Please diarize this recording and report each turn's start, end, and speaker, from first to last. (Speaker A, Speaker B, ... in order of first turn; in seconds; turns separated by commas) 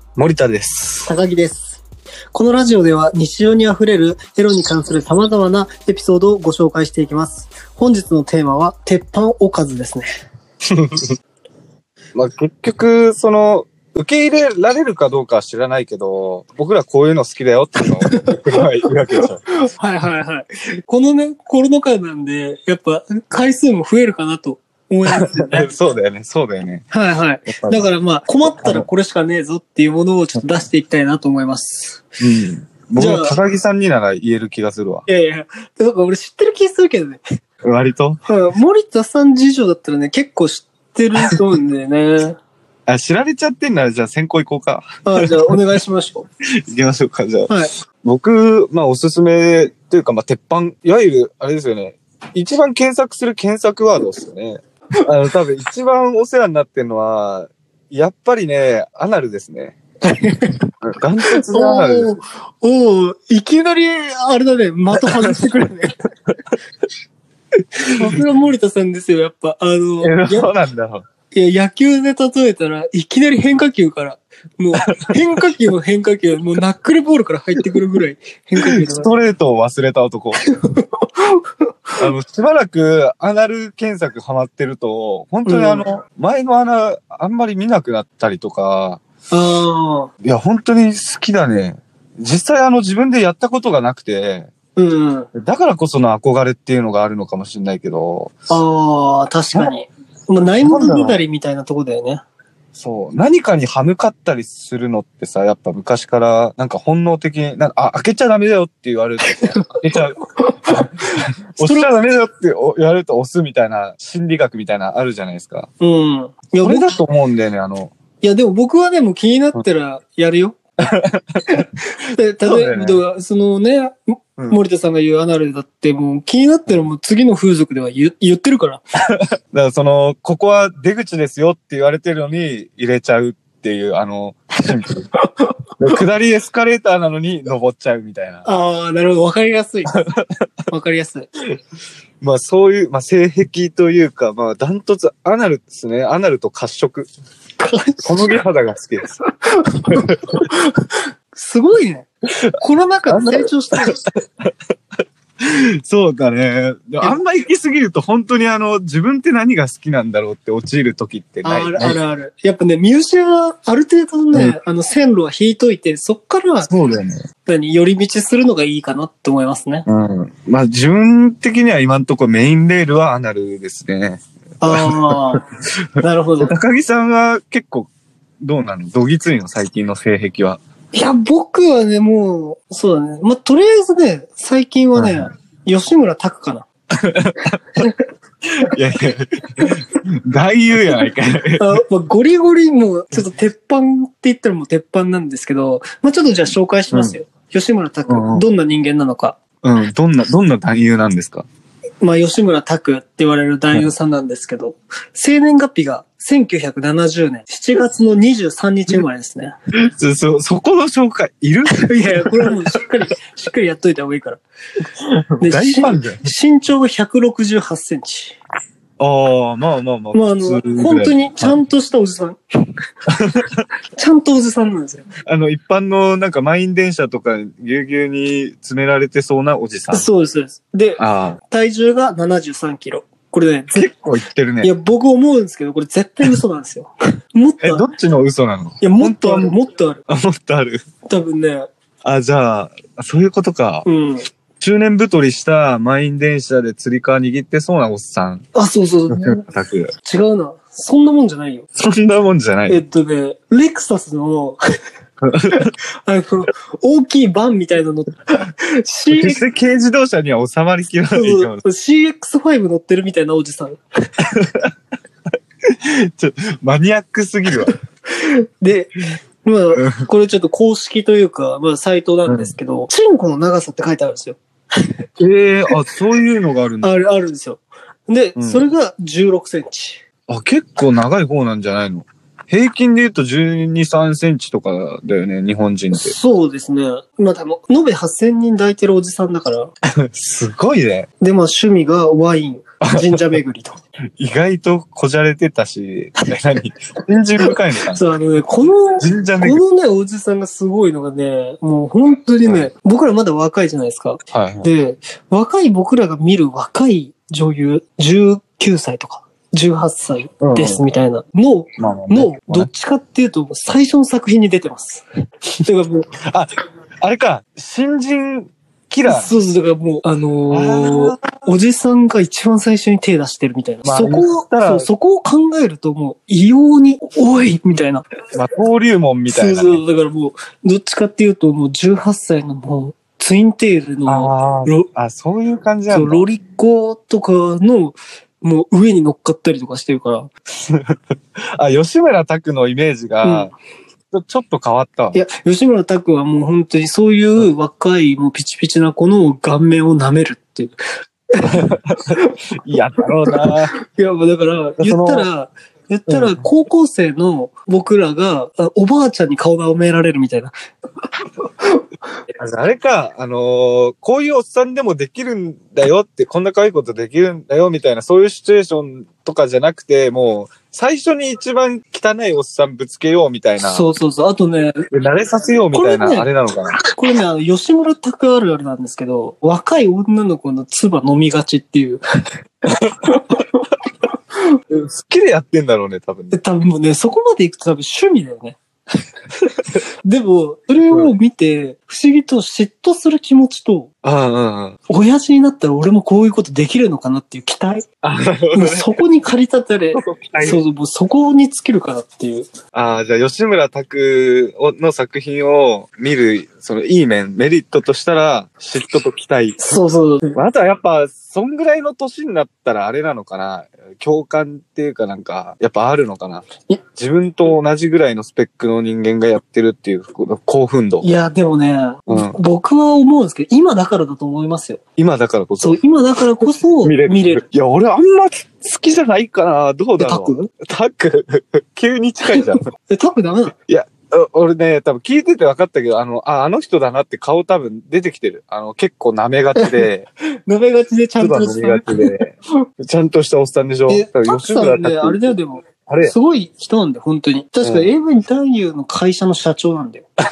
Speaker A: 0.2-1.1, Speaker B: 1.1-1.8, Speaker B: 2.3-10.1, Speaker A: 10.8-11.1, Speaker A: 12.1-19.4, Speaker B: 18.0-18.4, Speaker B: 19.2-25.7, Speaker A: 25.1-26.9, Speaker B: 26.9-32.0, Speaker A: 27.5-27.9, Speaker A: 28.4-28.9, Speaker A: 32.2-35.1, Speaker B: 33.0-33.4, Speaker B: 35.1-37.2, Speaker A: 37.6-38.2, Speaker B: 38.2-42.4, Speaker A: 42.9-45.5, Speaker B: 45.0-46.2, Speaker A: 46.7-59.8, Speaker B: 60.1-60.6, Speaker A: 60.8-62.1, Speaker B: 61.3-66.0, Speaker A: 65.0-65.4, Speaker B: 67.9-70.5, Speaker A: 70.0-71.0, Speaker B: 71.3-79.1, Speaker A: 74.9-75.1, Speaker A: 78.6-80.4, Speaker B: 80.5-81.4, Speaker A: 82.0-89.0, Speaker B: 85.5-85.8, Speaker B: 89.3-90.1, Speaker A: 90.2-94.5, Speaker B: 94.8-95.3, Speaker A: 95.3-98.4, Speaker B: 98.5-102.2, Speaker A: 100.6-101.2, Speaker A: 102.8-115.7, Speaker B: 109.3-109.6, Speaker B: 110.4-110.9, Speaker B: 111.6-111.9, Speaker B: 115.8-116.9, Speaker A: 116.6-117.9, Speaker B: 118.2-120.6, Speaker A: 120.9-121.6, Speaker B: 121.5-123.9, Speaker A: 122.4-123.0, Speaker B: 124.5-128.8, Speaker A: 129.5-135.1, Speaker A: 135.8-138.5, Speaker B: 138.4-139.9, Speaker A: 139.9-140.2, Speaker B: 140.7-141.3, Speaker A: 142.2-147.1, Speaker B: 147.6-148.3, Speaker A: 148.0-149.2, Speaker B: 149.5-152.1, Speaker A: 149.9-150.4, Speaker A: 152.4-154.5, Speaker B: 152.6-154.0, Speaker A: 155.4-162.0, Speaker B: 161.4-166.7, Speaker A: 166.7-167.2, Speaker B: 167.5-169.8, Speaker A: 169.9-175.2, Speaker B: 174.6-175.4, Speaker B: 176.0-176.5, Speaker A: 176.4-177.9, Speaker A: 178.4-180.6, Speaker B: 180.9-186.7, Speaker A: 185.0-185.2, Speaker A: 187.0-187.8, Speaker A: 188.7-191.7, Speaker B: 191.6-199.4, Speaker A: 196.9-197.2, Speaker A: 198.1-198.4, Speaker A: 199.6-201.4, Speaker B: 202.0-209.5, Speaker A: 209.9-212.6, Speaker B: 211.8-214.4, Speaker A: 215.3-216.2, Speaker B: 215.4-218.4, Speaker A: 219.0-221.6, Speaker B: 220.1-222.4, Speaker A: 223.1-223.6, Speaker B: 224.0-225.1, Speaker A: 225.2-230.1, Speaker B: 229.9-233.9, Speaker A: 231.0-231.4, Speaker A: 233.8-234.7, Speaker B: 234.6-237.8, Speaker A: 237.6-239.5, Speaker B: 238.8-240.0, Speaker A: 240.1-240.8, Speaker B: 241.1-241.7, Speaker A: 242.0-243.9, Speaker B: 243.8-244.2, Speaker A: 244.6-248.4, Speaker B: 248.5-249.4, Speaker A: 249.1-249.9, Speaker B: 250.0-251.7, Speaker A: 251.8-252.8, Speaker B: 252.7-254.6, Speaker A: 255.2-255.7, Speaker B: 255.6-259.4, Speaker A: 259.1-261.6, Speaker B: 261.1-263.8, Speaker A: 264.2-264.7, Speaker A: 265.7-267.7, Speaker B: 268.1-274.4, Speaker A: 272.2-272.5, Speaker A: 275.2-276.9, Speaker B: 276.8-280.0, Speaker A: 278.4-278.6, Speaker A: 280.3-286.1, Speaker B: 285.9-289.7, Speaker A: 290.0-291.1, Speaker B: 291.2-293.8, Speaker A: 292.8-293.3, Speaker A: 294.2-298.4, Speaker B: 297.5-315.0, Speaker A: 299.0-299.6, Speaker A: 304.3-304.7, Speaker A: 310.4-310.8, Speaker A: 311.8-312.7, Speaker B: 315.6-316.1, Speaker A: 316.2-316.5, Speaker A: 317.0-319.4, Speaker B: 319.1-328.0, Speaker A: 320.5-321.5, Speaker A: 323.8-324.9, Speaker A: 328.3-329.8, Speaker B: 329.3-334.9, Speaker A: 334.1-336.3, Speaker B: 335.9-340.3, Speaker A: 340.5-340.9, Speaker A: 341.6-343.5, Speaker B: 343.2-343.5, Speaker A: 344.1-345.2, Speaker B: 345.1-350.7, Speaker A: 351.5-353.7, Speaker B: 353.3-360.5, Speaker A: 354.8-355.3, Speaker A: 356.1-356.4, Speaker A: 362.4-373.9, Speaker B: 373.6-374.9, Speaker A: 374.9-376.8, Speaker B: 375.7-376.3, Speaker B: 376.9-382.0, Speaker A: 384.7-386.4, Speaker B: 386.3-388.6, Speaker B: 390.0-393.9, Speaker A: 394.0-394.8, Speaker B: 394.9-397.8, Speaker A: 398.0-398.9, Speaker B: 398.5-402.5, Speaker A: 399.9-400.6, Speaker A: 402.7-409.8, Speaker B: 409.6-410.4, Speaker A: 410.3-416.4, Speaker A: 417.0-421.1, Speaker B: 421.0-424.8, Speaker A: 422.1-422.4, Speaker A: 425.0-425.8, Speaker B: 425.6-427.4, Speaker A: 426.8-432.6, Speaker B: 430.0-430.5, Speaker B: 432.3-433.5, Speaker A: 433.7-440.0, Speaker B: 439.6-439.9, Speaker B: 440.5-442.1, Speaker A: 441.2-445.2, Speaker B: 443.9-450.1, Speaker A: 445.9-446.1, Speaker A: 447.6-447.9